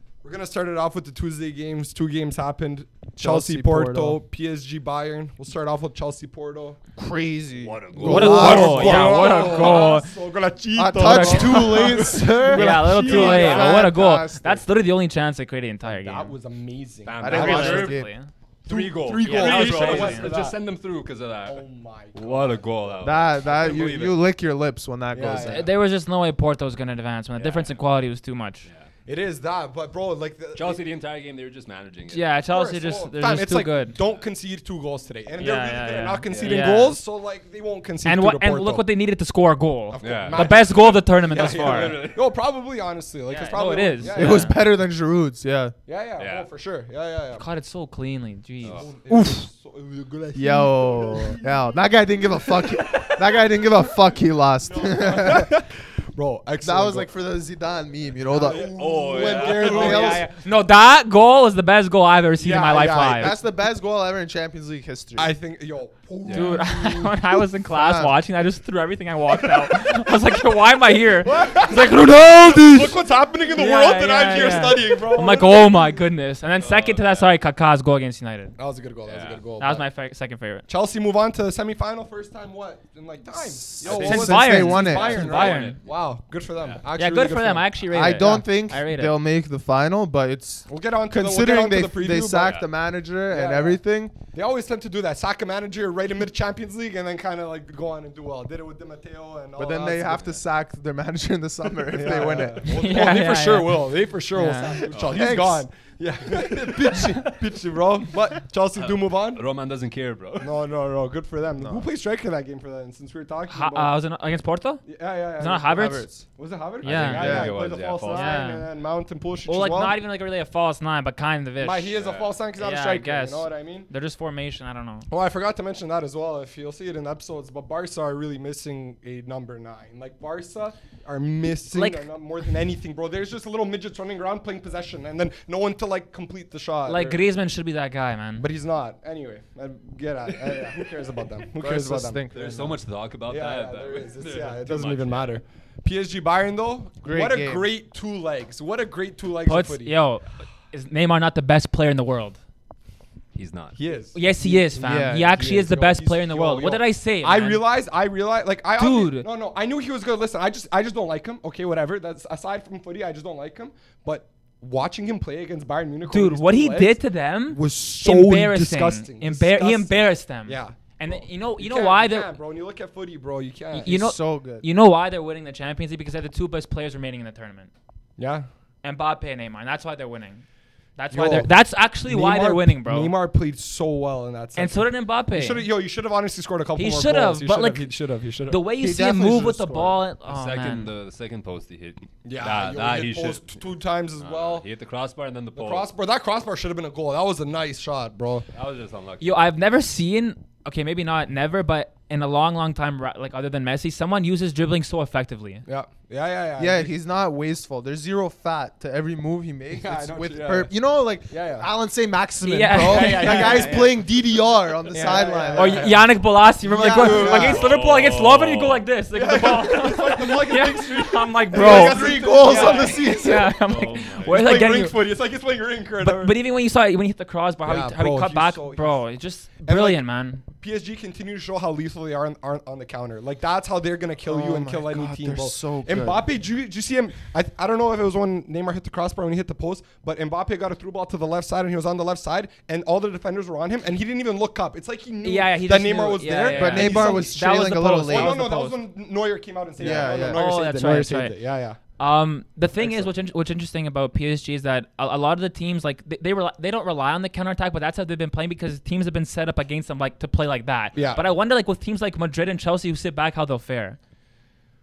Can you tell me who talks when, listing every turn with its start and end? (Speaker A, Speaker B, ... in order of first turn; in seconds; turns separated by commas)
Speaker A: 0.2-6.8, Speaker B: 3.2-4.2, Speaker B: 7.0-10.0, Speaker C: 7.6-9.5, Speaker A: 8.0-13.9, Speaker D: 8.1-10.1, Speaker B: 10.8-14.7, Speaker D: 10.9-16.3, Speaker A: 15.8-17.9, Speaker C: 17.1-18.0, Speaker B: 17.2-18.1, Speaker D: 17.3-18.3, Speaker C: 18.7-21.6, Speaker A: 18.7-20.6, Speaker D: 19.2-20.3, Speaker A: 21.4-23.1, Speaker C: 22.1-24.2, Speaker B: 23.0-25.7, Speaker A: 25.1-25.7, Speaker D: 25.4-28.7, Speaker C: 27.4-27.8, Speaker C: 28.6-28.9, Speaker A: 29.1-30.8, Speaker C: 30.6-32.3, Speaker D: 32.1-34.0, Speaker A: 32.5-38.8, Speaker D: 35.4-37.0, Speaker C: 36.3-36.7, Speaker D: 38.0-42.0, Speaker A: 39.9-44.5, Speaker C: 40.0-42.3, Speaker D: 43.3-44.6, Speaker B: 44.1-45.8, Speaker A: 45.9-47.4, Speaker C: 46.2-46.5, Speaker D: 47.4-48.9, Speaker C: 48.6-48.9, Speaker A: 48.6-53.5, Speaker B: 49.1-49.4, Speaker B: 50.4-55.5, Speaker A: 54.7-57.2, Speaker B: 56.6-58.7, Speaker A: 58.3-60.3, Speaker C: 58.4-60.2, Speaker D: 59.4-63.3, Speaker B: 59.5-60.0, Speaker A: 62.4-63.3, Speaker B: 63.1-65.3, Speaker A: 65.2-67.2, Speaker C: 66.2-66.6, Speaker D: 66.3-73.0, Speaker B: 67.7-68.2, Speaker A: 69.6-69.8, Speaker A: 71.3-71.8, Speaker A: 72.5-76.0, Speaker D: 73.5-78.5, Speaker C: 76.6-77.3, Speaker A: 78.6-79.9, Speaker C: 79.1-79.5, Speaker D: 79.6-80.7, Speaker A: 80.7-87.7, Speaker B: 83.3-85.2, Speaker C: 83.8-84.2, Speaker D: 84.0-85.8, Speaker C: 84.8-85.8, Speaker C: 86.6-86.8, Speaker D: 87.0-89.2, Speaker B: 87.9-94.1, Speaker A: 90.7-92.6, Speaker C: 92.4-92.7, Speaker A: 93.3-93.8, Speaker A: 94.3-100.2, Speaker B: 99.6-102.7, Speaker C: 100.1-100.4, Speaker A: 101.8-109.4, Speaker D: 102.7-104.8, Speaker C: 104.9-105.6, Speaker C: 108.8-110.5, Speaker A: 110.4-113.9, Speaker B: 111.6-111.9, Speaker D: 113.5-114.8, Speaker A: 114.8-120.0, Speaker D: 115.4-116.1, Speaker B: 115.7-116.2, Speaker C: 116.8-118.3, Speaker D: 116.8-117.5, Speaker B: 117.0-117.6, Speaker D: 118.1-118.7, Speaker D: 119.5-121.9, Speaker A: 121.6-123.9, Speaker C: 122.0-122.4, Speaker D: 122.6-125.1, Speaker A: 125.1-137.2, Speaker D: 131.7-132.1, Speaker D: 136.9-138.4, Speaker A: 138.4-142.8, Speaker B: 141.6-142.6, Speaker C: 142.3-145.3, Speaker A: 143.3-149.9, Speaker B: 147.0-147.7, Speaker D: 149.5-152.4, Speaker C: 153.3-153.8, Speaker A: 153.8-167.0, Speaker D: 154.1-157.7, Speaker B: 154.8-155.6, Speaker D: 158.8-159.3, Speaker D: 166.1-172.3, Speaker A: 167.5-173.9, Speaker B: 173.8-174.7, Speaker D: 173.8-177.7, Speaker A: 178.2-178.5, Speaker D: 178.8-180.4, Speaker D: 181.0-183.1, Speaker A: 181.1-181.5, Speaker A: 182.1-188.6, Speaker D: 184.6-185.7, Speaker D: 186.8-187.9, Speaker D: 188.5-190.9, Speaker B: 188.8-190.0, Speaker C: 190.3-193.6, Speaker A: 192.2-194.7, Speaker C: 194.1-195.9, Speaker A: 195.5-198.5, Speaker C: 198.5-199.4, Speaker D: 199.2-205.7, Speaker A: 205.7-206.9, Speaker B: 206.6-216.0, Speaker A: 209.7-210.7, Speaker A: 211.3-211.7, Speaker D: 212.4-213.9, Speaker A: 212.8-213.9, Speaker A: 214.9-216.0, Speaker D: 214.9-225.0, Speaker B: 216.6-217.6, Speaker A: 216.9-217.7, Speaker C: 217.3-218.8, Speaker A: 219.1-223.3, Speaker B: 221.5-223.5, Speaker C: 223.7-224.4, Speaker A: 224.2-226.3, Speaker D: 226.0-230.4, Speaker A: 227.7-229.0, Speaker A: 229.6-230.0, Speaker A: 230.6-251.8, Speaker B: 234.3-236.3, Speaker D: 245.2-248.8, Speaker B: 246.5-248.4, Speaker B: 249.8-250.4, Speaker D: 250.0-251.4, Speaker D: 252.0-264.0, Speaker A: 252.8-253.1, Speaker C: 260.9-261.2, Speaker A: 261.0-261.2